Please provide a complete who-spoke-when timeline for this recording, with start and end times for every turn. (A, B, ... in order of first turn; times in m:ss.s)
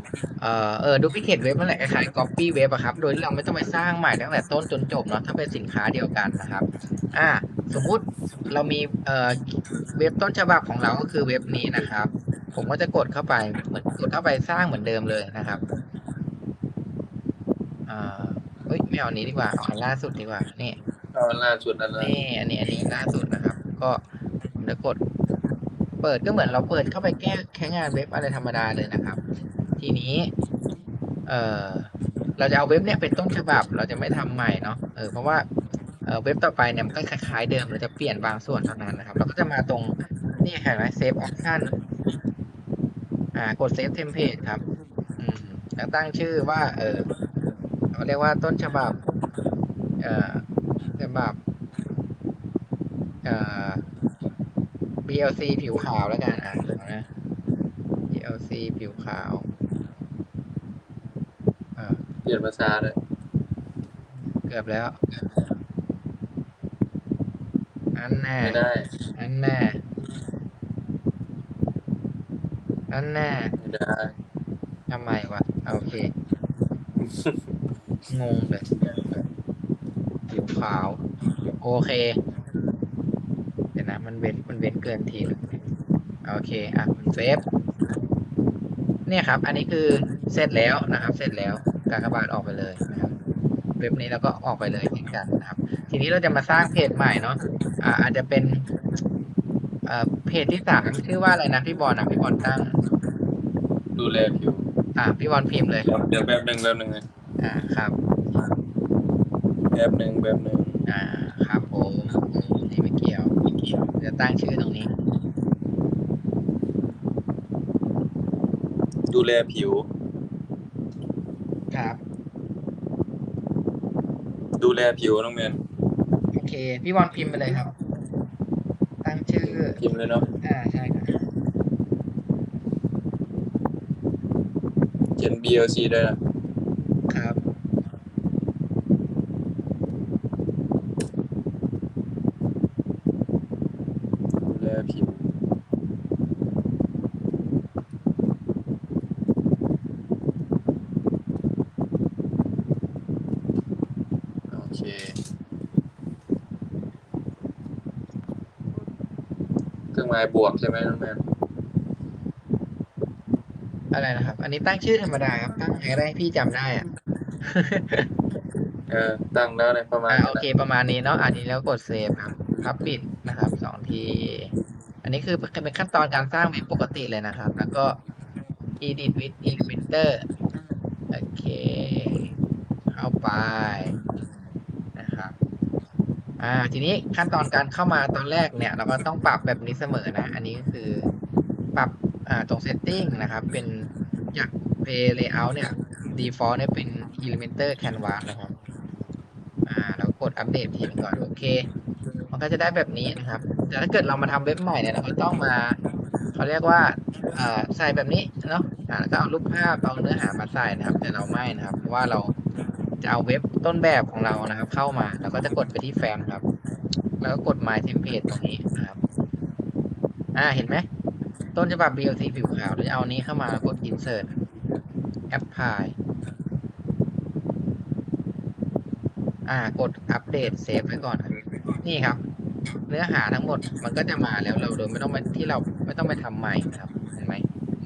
0:00.4-0:15.6 A
0:17.9-0:20.8 A
0:21.1-0:22.2 B
0:22.0-0:24.0 A
0:24.6-0:25.0 A
0:26.0-0:29.2 A
0:29.8-0:30.3 A
0:31.3-0:35.5 A
0:36.0-0:41.8 A
0:43.3-0:44.6 A
0:45.2-0:47.1 A
0:47.9-0:49.0 A
0:50.0-0:50.4 A
0:51.0-0:51.4 A
0:53.2-0:53.8 A
0:55.0-0:57.1 A
0:58.1-0:59.5 A
1:01.8-1:02.0 A
1:02.2-1:03.0 B
1:04.5-1:05.0 A
1:08.0-1:08.6 A
1:08.4-1:08.9 B
1:09.2-1:09.8 A
1:12.9-1:13.5 A
1:13.6-1:14.1 B
1:14.9-1:16.1 A
1:17.0-1:17.4 B
1:18.1-1:18.7 A
1:18.7-1:19.3 B
1:20.3-1:21.0 A
1:21.6-1:22.2 A
1:23.8-1:25.6 A
1:26.2-1:27.4 A
1:29.1-1:33.1 A
1:33.8-1:38.7 A
1:39.9-1:42.8 A
1:44.0-1:44.6 B
1:45.0-1:45.9 A
1:45.8-1:47.0 B
1:47.4-1:48.0 A
1:49.7-1:50.9 B
1:50.9-1:53.4 A
1:53.9-1:54.9 A
1:59.1-1:59.9 B
2:01.7-2:02.0 A
2:04.6-2:05.6 B
2:06.3-2:07.8 A
2:09.0-2:09.8 A
2:09.4-2:10.3 B
2:10.4-2:11.2 A
2:15.2-2:16.2 B
2:17.1-2:17.4 A
2:24.4-2:25.3 B
2:34.5-2:35.2 B
2:39.9-2:41.2 B
2:43.9-2:46.8 A
2:47.4-2:48.1 A
2:48.9-2:50.5 B
2:50.1-2:54.5 A
2:55.0-2:58.0 A
2:58.8-3:00.3 A
3:01.1-3:02.3 A
3:02.9-3:04.0 A
3:05.0-3:05.3 A
3:06.4-3:11.1 A
3:11.8-3:18.5 A
3:19.7-3:21.7 A
3:22.3-3:25.8 A
3:26.4-3:32.4 A
3:33.0-3:36.4 A
3:37.2-3:39.0 A
3:40.4-3:40.9 A
3:41.6-3:44.4 A
3:45.3-3:46.0 A
3:49.5-3:52.2 A
3:52.9-3:57.4 A